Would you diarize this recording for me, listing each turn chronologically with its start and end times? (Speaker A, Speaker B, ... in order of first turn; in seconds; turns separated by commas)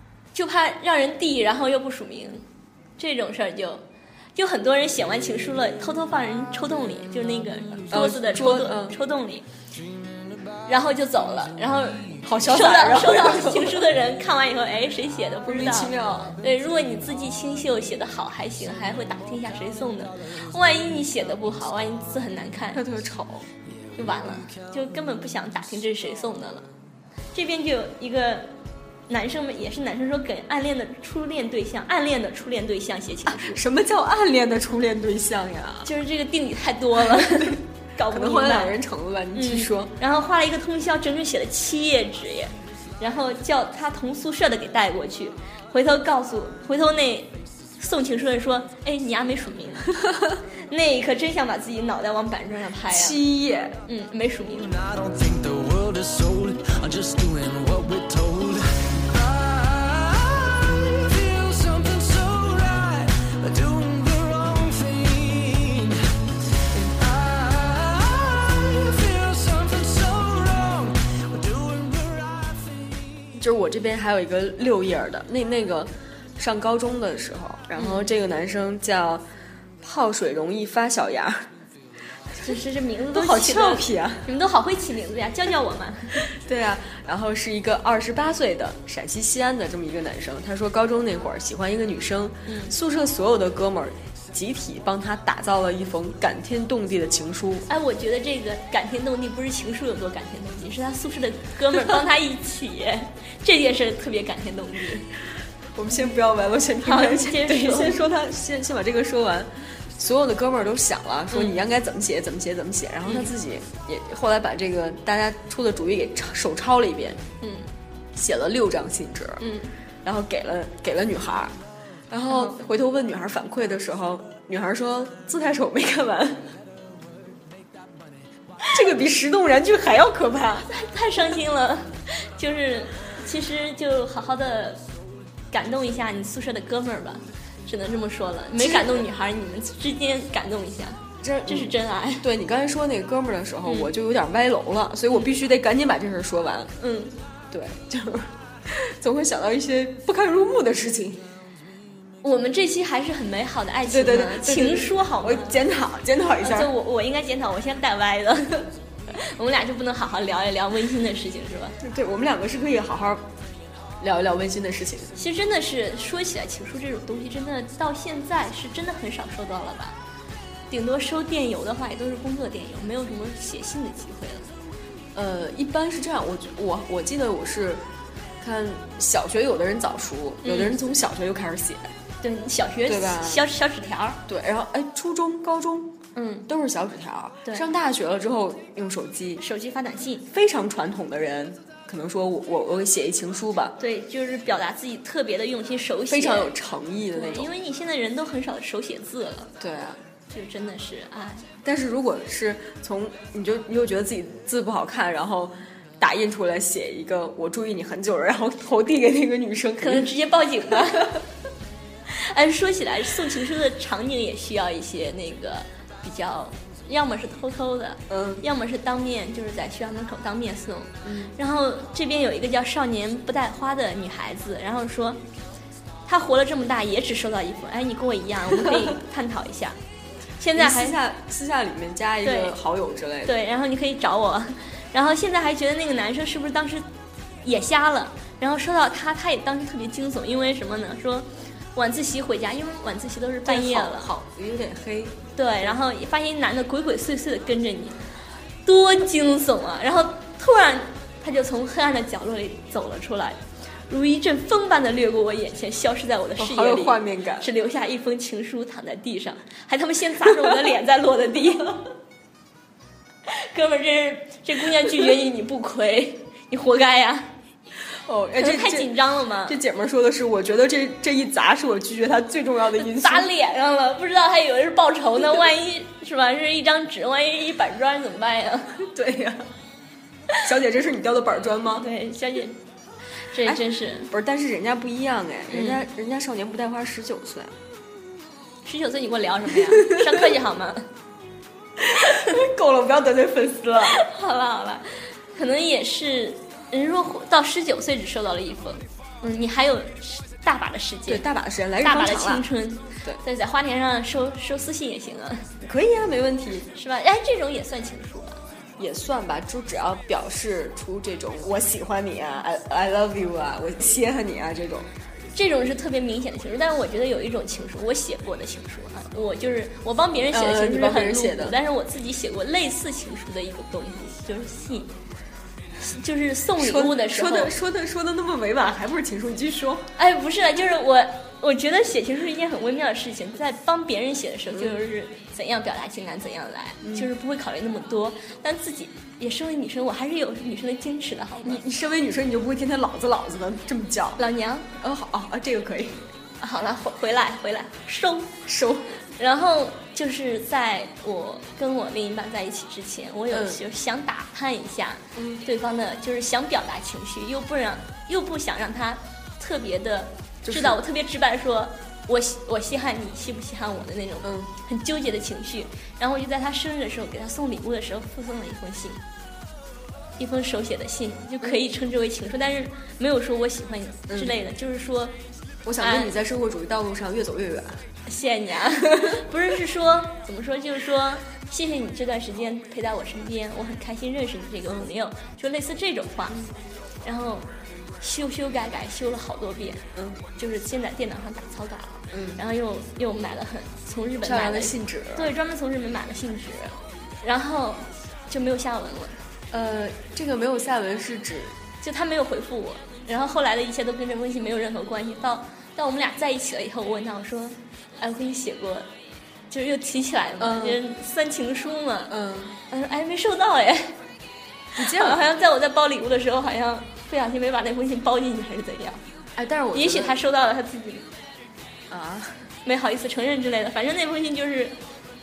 Speaker A: 0.3-2.5, Speaker A: 3.0-3.8, Speaker A: 4.4-9.4, Speaker B: 7.9-9.0, Speaker A: 10.7-22.8, Speaker B: 12.2-13.9, Speaker B: 15.4-16.4, Speaker B: 22.7-23.5, Speaker A: 23.9-26.7, Speaker A: 27.3-28.5, Speaker A: 29.1-33.6, Speaker B: 33.2-35.9, Speaker A: 35.8-38.8, Speaker B: 37.1-39.9, Speaker A: 39.3-50.0, Speaker A: 50.7-53.2, Speaker B: 52.9-53.8, Speaker A: 53.9-54.7, Speaker C: 54.5-66.0, Speaker C: 66.7-73.2, Speaker B: 73.3-79.2, Speaker A: 77.8-78.1, Speaker B: 79.8-81.5, Speaker A: 82.4-86.3, Speaker B: 83.1-84.2, Speaker B: 86.2-97.7, Speaker A: 92.5-92.8, Speaker A: 97.7-105.1, Speaker B: 105.8-117.2, Speaker A: 106.8-108.0, Speaker A: 111.3-111.6, Speaker A: 113.1-113.3, Speaker A: 117.4-117.7, Speaker B: 118.2-119.4, Speaker A: 119.4-119.7, Speaker B: 120.0-121.5, Speaker B: 122.1-126.5, Speaker A: 122.3-122.5, Speaker B: 128.7-130.7, Speaker A: 130.7-134.8, Speaker A: 135.5-142.3, Speaker B: 138.6-139.1, Speaker B: 141.2-146.7, Speaker A: 143.6-143.9, Speaker A: 146.8-147.2, Speaker B: 147.5-151.2, Speaker A: 152.2-155.6, Speaker B: 153.9-156.7, Speaker A: 156.4-161.8, Speaker B: 161.8-163.2, Speaker B: 164.0-165.2, Speaker A: 165.2-169.9, Speaker A: 170.7-174.5, Speaker B: 175.1-177.8, Speaker B: 178.4-181.9, Speaker A: 180.4-180.8, Speaker A: 182.2-184.2, Speaker B: 182.9-183.4, Speaker B: 184.3-185.9, Speaker A: 186.1-186.5, Speaker B: 186.4-189.4, Speaker A: 189.4-190.3, Speaker B: 190.3-193.8, Speaker A: 193.8-196.5, Speaker B: 196.1-197.5, Speaker A: 197.1-199.5, Speaker B: 199.6-200.0, Speaker A: 200.3-201.5, Speaker B: 201.6-210.1, Speaker A: 209.8-211.2, Speaker B: 210.9-211.2, Speaker A: 212.1-225.2, Speaker B: 218.1-218.4, Speaker B: 221.0-221.3, Speaker A: 226.1-229.8, Speaker A: 230.4-231.0, Speaker B: 230.5-233.3, Speaker A: 232.2-232.5, Speaker A: 233.2-236.9, Speaker A: 237.4-244.1, Speaker B: 243.4-245.2, Speaker A: 245.4-248.0, Speaker A: 248.6-261.8, Speaker B: 256.4-257.5, Speaker A: 263.2-267.3, Speaker B: 268.0-268.9, Speaker A: 268.4-269.6, Speaker B: 269.4-273.3, Speaker A: 272.8-278.8, Speaker B: 278.8-279.5, Speaker B: 280.4-281.9, Speaker A: 281.8-282.6, Speaker A: 283.2-284.1, Speaker B: 283.4-287.5, Speaker A: 285.5-285.8, Speaker A: 288.6-290.9, Speaker B: 291.8-294.0, Speaker A: 293.9-301.2, Speaker B: 301.1-302.4, Speaker A: 301.8-305.5, Speaker B: 305.6-306.7, Speaker A: 306.7-308.4, Speaker B: 308.8-314.9, Speaker A: 315.3-324.9, Speaker B: 320.3-321.6, Speaker A: 325.8-327.5, Speaker B: 326.6-329.9, Speaker A: 330.0-341.6, Speaker B: 336.8-337.1, Speaker B: 341.4-344.2, Speaker A: 344.2-344.7, Speaker B: 344.8-346.1, Speaker A: 346.4-348.4, Speaker B: 348.4-348.9, Speaker A: 349.1-369.0, Speaker B: 353.3-353.6, Speaker B: 355.1-355.4, Speaker B: 360.4-360.8, Speaker B: 364.2-364.5, Speaker A: 370.2-375.1, Speaker B: 374.1-374.3, Speaker B: 375.6-377.8, Speaker A: 375.8-376.1, Speaker A: 378.1-386.4, Speaker A: 387.0-387.5, Speaker A: 388.0-399.2, Speaker B: 392.1-392.4, Speaker B: 394.2-395.3, Speaker B: 399.5-401.6, Speaker A: 401.8-408.9, Speaker A: 409.5-412.1, Speaker B: 410.4-410.8, Speaker B: 412.1-412.6, Speaker A: 412.7-414.0, Speaker A: 414.8-419.0, Speaker B: 414.8-415.2, Speaker B: 419.4-420.2, Speaker A: 419.7-421.1, Speaker B: 421.9-422.5, Speaker A: 422.6-424.8